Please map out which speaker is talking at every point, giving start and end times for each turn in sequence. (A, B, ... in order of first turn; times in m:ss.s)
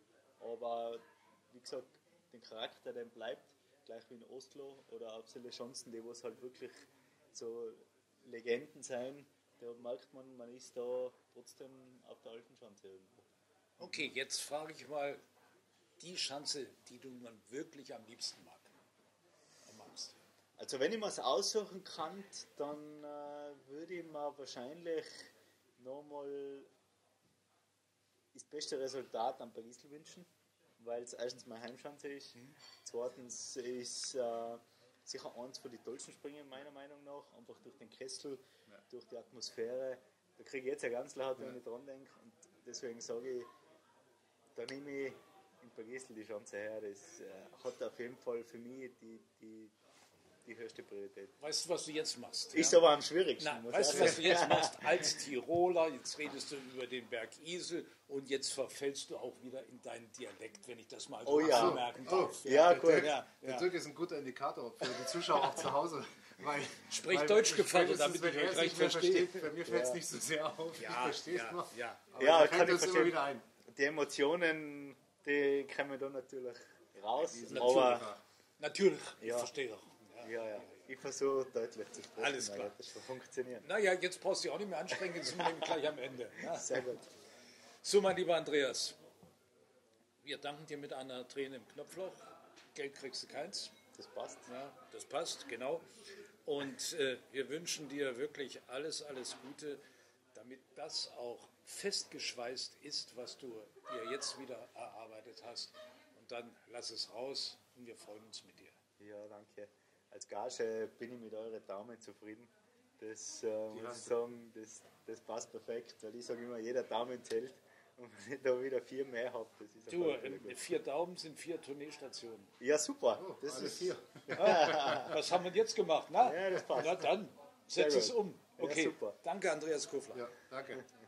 0:00.4-0:13.2 A
0:13.8-0:15.2 B
0:16.0-0:18.7 B
0:19.6-0:20.2 B
0:20.6-0:26.7 A
0:28.3-0:30.3 A
0:30.8-0:43.5 A
0:44.5-0:49.7 A
0:50.4-0:51.4 A
0:51.4-0:52.8 B
0:52.5-0:55.0 A
0:53.4-1:03.7 B
0:53.9-0:54.3 C
1:01.2-1:01.9 A
1:01.4-1:13.4 C
1:02.4-1:03.1 A
1:06.9-1:09.5 B
1:09.6-1:10.0 A
1:10.7-1:12.1 B
1:12.2-1:18.1 A
1:17.2-1:18.2 C
1:17.4-1:18.0 B
1:18.6-1:20.9 B
1:19.2-1:19.5 A
1:20.2-1:23.7 A
1:22.2-1:22.8 B
1:23.6-1:26.9 B
1:25.1-1:25.7 A
1:26.4-1:27.1 A
1:27.8-1:29.0 B
1:30.2-1:32.2 B
1:32.7-1:33.7 B
1:33.9-1:34.5 A
1:34.5-1:35.8 B
1:36.4-1:39.8 B
1:40.3-1:48.7 B
1:49.0-2:00.7 A
1:53.7-1:54.2 C
1:59.9-2:02.5 B
2:02.6-2:05.2 A
2:03.2-2:05.1 C
2:04.3-2:10.3 B
2:06.2-2:07.1 A
2:07.7-2:09.2 A
2:10.1-2:10.9 C